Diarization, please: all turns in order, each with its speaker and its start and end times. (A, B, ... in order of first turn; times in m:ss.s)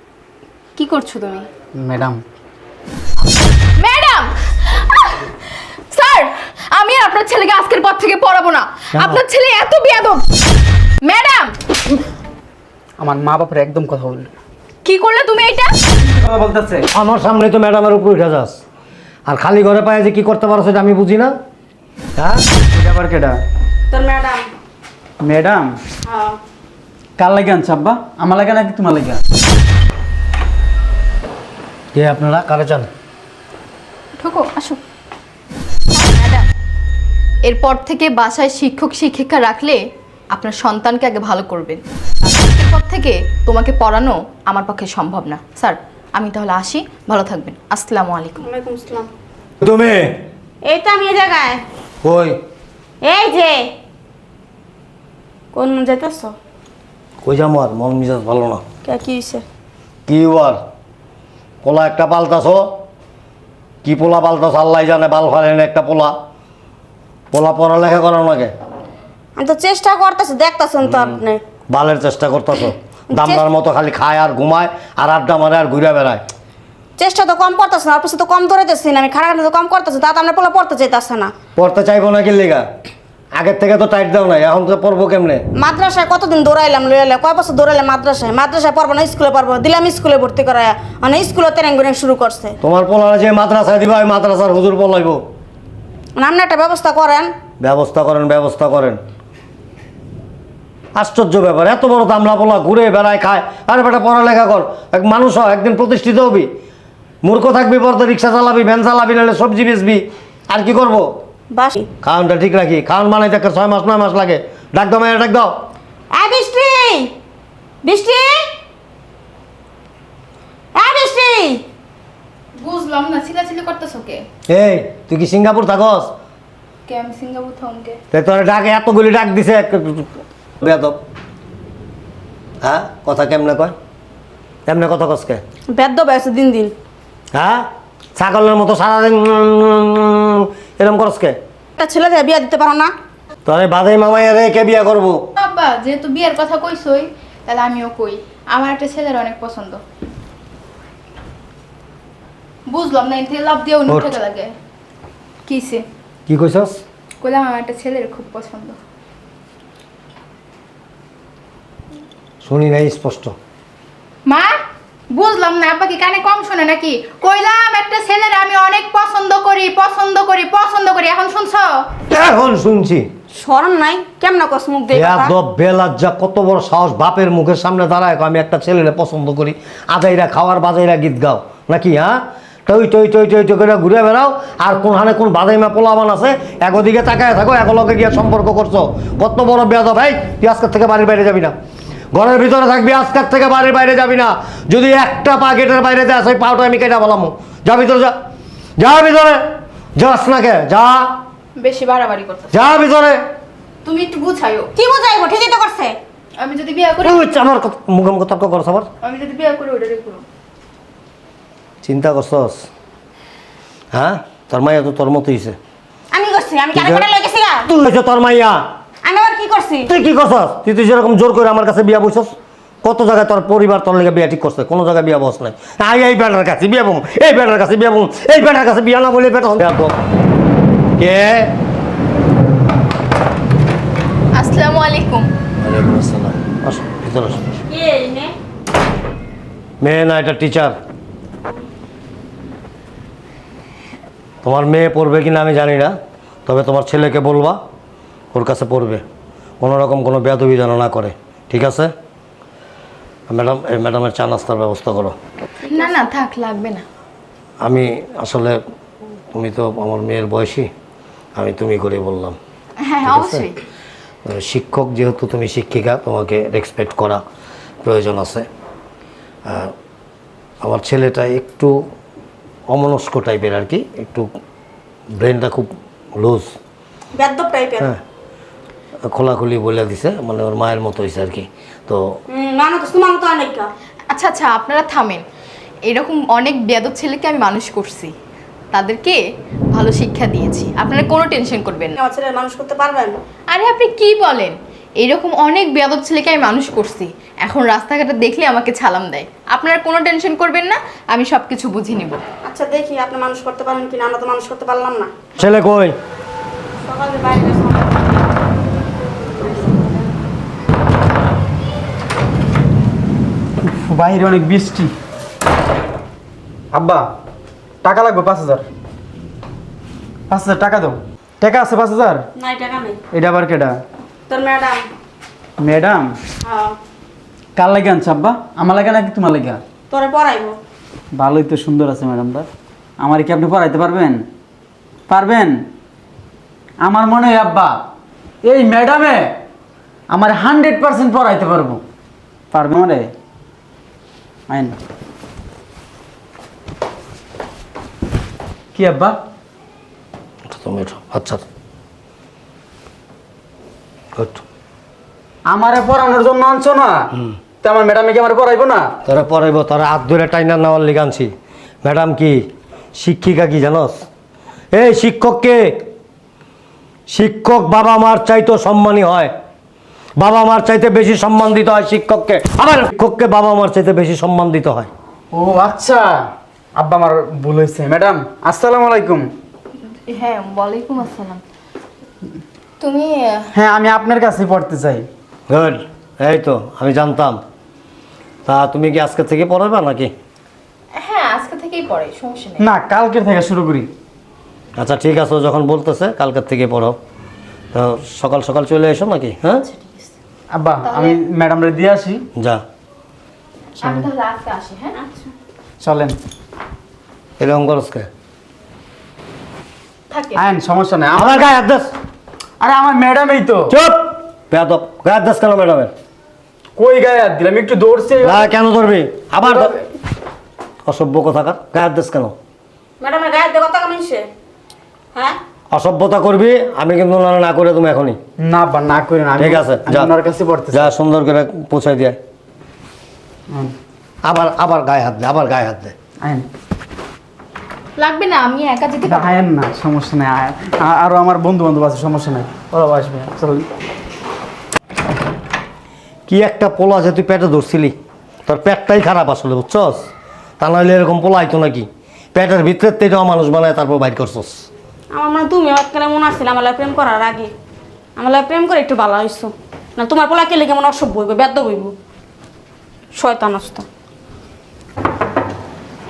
0:00.8-0:01.5 A
0:01.8-0:02.2 B
0:03.8-0:05.2 A
0:05.9-0:10.2 A
0:08.9-0:09.2 C
0:11.0-0:11.6 A
0:13.0-0:14.3 B
0:14.8-0:15.7 A
0:16.0-0:16.8 B
0:16.9-0:18.6 C
0:19.3-0:21.3 C
0:22.2-0:22.4 C
0:22.7-0:23.4 B
0:23.9-0:24.5 D
0:25.2-0:25.7 B
0:26.1-0:26.4 D
0:27.2-0:29.2 B
0:31.9-0:32.9 C
0:34.2-0:34.8 A
0:35.9-0:36.5 A
0:37.4-0:39.8 A
0:40.3-0:48.4 A
0:48.4-0:49.1 D
0:49.6-0:50.1 C
0:50.6-0:51.6 D
0:52.0-0:52.4 C
0:53.0-0:53.7 D
0:55.5-0:56.3 D
0:57.2-0:58.6 C
0:58.8-0:59.4 D
1:00.1-1:00.6 C
1:01.6-1:02.7 C
1:03.8-1:06.1 C
1:07.3-1:08.5 C
1:09.4-1:11.4 D
1:10.9-1:11.2 C
1:11.7-1:16.2 C
1:13.1-1:13.4 D
1:17.0-1:21.3 D
1:21.6-1:22.6 C
1:23.3-1:25.4 C
1:25.6-1:32.5 D
1:32.6-1:35.2 C
1:36.2-1:37.3 D
1:37.6-1:39.0 C
1:40.9-1:46.5 C
1:47.2-1:51.1 C
1:51.5-1:51.9 D
1:52.0-1:55.5 C
1:56.1-1:57.1 D
1:57.8-1:58.3 D
2:00.7-2:01.6 D
2:02.6-2:04.2 A
2:04.5-2:06.1 C
2:06.9-2:08.0 A
2:08.1-2:10.1 C
2:10.6-2:11.0 C
2:12.6-2:13.7 C
2:14.6-2:15.4 C
2:15.7-2:16.7 D
2:17.3-2:17.6 C
2:18.2-2:21.4 C
2:21.8-2:22.9 D
2:23.4-2:25.2 C
2:25.4-2:29.8 A
2:32.7-2:34.5 A
2:35.4-2:35.8 A
2:36.3-2:36.8 C
2:37.2-2:38.8 A
2:42.4-2:43.3 C
2:44.3-2:44.5 A
2:45.1-2:51.8 A
2:52.1-2:53.1 C
2:53.3-2:55.3 D
2:54.9-3:11.5 C
3:12.1-3:18.1 C
3:18.8-3:19.4 C
3:20.0-3:21.2 C
3:21.6-3:22.5 A
3:22.5-3:23.2 C
3:23.8-3:24.7 A
3:24.8-3:26.0 D
3:26.4-3:27.2 A
3:27.0-3:28.9 C
3:29.0-3:30.2 A
3:31.8-3:32.7 C
3:33.9-3:35.6 C
3:36.1-3:37.7 D
3:36.7-3:37.1 C
3:37.6-3:38.6 C
3:39.0-3:39.9 D
3:39.9-3:49.9 C
3:51.0-3:51.5 C
3:54.3-3:55.3 A
3:55.6-3:57.5 C
3:57.7-3:58.3 D
3:59.8-4:00.7 C
4:04.4-4:05.9 C
4:06.4-4:07.6 C
4:08.3-4:09.0 C
4:09.6-4:11.9 C
4:13.3-4:15.1 C
4:15.7-4:16.8 A
4:17.6-4:18.6 C
4:19.3-4:20.7 C
4:21.4-4:22.4 C
4:22.8-4:23.6 A
4:23.0-4:23.5 C
4:24.2-4:27.2 C
4:27.8-4:28.5 C
4:29.4-4:29.7 C
4:30.6-4:31.8 C
4:32.7-4:34.3 C
4:35.1-4:36.5 C
4:37.1-4:37.9 D
4:39.1-4:42.0 C
4:42.3-4:43.7 D
4:44.1-4:45.2 A
4:45.9-4:48.1 A
4:48.7-4:49.2 A
4:49.7-4:51.9 A
4:52.0-4:53.2 D
4:53.5-5:02.2 A
5:02.4-5:05.1 D
5:05.4-5:05.9 C
5:06.8-5:08.1 D
5:09.4-5:10.1 D
5:13.6-5:14.9 B
5:16.7-5:17.0 B
5:17.8-5:18.6 B
5:20.3-5:22.2 B
5:22.4-5:23.0 D
5:23.1-5:23.8 B
5:24.3-5:24.9 D
5:25.6-5:26.2 B
5:26.4-5:26.7 D
5:27.6-5:29.6 B
5:29.9-5:30.6 D
5:31.1-5:32.5 B
5:33.0-5:34.2 B
5:35.1-5:35.6 B
5:36.8-5:37.8 B
5:38.4-5:39.4 B
5:40.1-5:41.8 B
5:42.5-5:43.1 B
5:44.5-5:44.8 B
5:48.7-5:49.2 B
5:50.5-5:51.4 C
5:54.2-5:54.4 C
5:55.4-5:57.1 B
5:57.6-5:58.9 B
5:59.0-6:01.3 C
6:01.8-6:04.0 C
6:04.7-6:05.8 C
6:07.1-6:09.3 C
6:10.2-6:14.9 C
6:15.3-6:19.3 B
6:20.1-6:21.4 A
6:22.8-6:23.5 A
6:23.5-6:25.1 B
6:25.5-6:27.4 C
6:28.5-6:30.1 C
6:31.0-6:32.6 A
6:32.6-6:33.9 B
6:34.8-6:37.0 C
6:37.7-6:39.6 C
6:39.7-6:40.0 A
6:40.5-6:42.2 B
6:40.8-6:41.2 A
6:42.4-6:42.6 C
6:43.8-6:45.0 A
6:45.0-6:45.3 D
6:45.8-6:46.2 B
6:47.4-6:48.1 C
6:50.1-6:50.4 A
6:50.4-6:51.4 B
6:51.1-6:51.9 C
6:52.6-6:53.7 B
6:53.7-6:55.9 C
6:56.8-6:58.5 B
6:58.2-6:59.7 C
6:59.4-6:59.7 B
7:00.8-7:02.3 C
7:03.0-7:04.3 D
7:05.7-7:08.2 C
7:08.4-7:10.9 B
7:09.4-7:10.1 C
7:10.7-7:12.2 C
7:14.2-7:15.9 C
7:16.2-7:16.5 B
7:18.0-7:19.3 A
7:19.0-7:23.7 B
7:26.3-7:27.9 C
7:28.4-7:30.1 C
7:30.6-7:34.7 C
7:35.1-7:37.5 D
7:38.2-7:41.9 D
7:43.2-7:43.8 D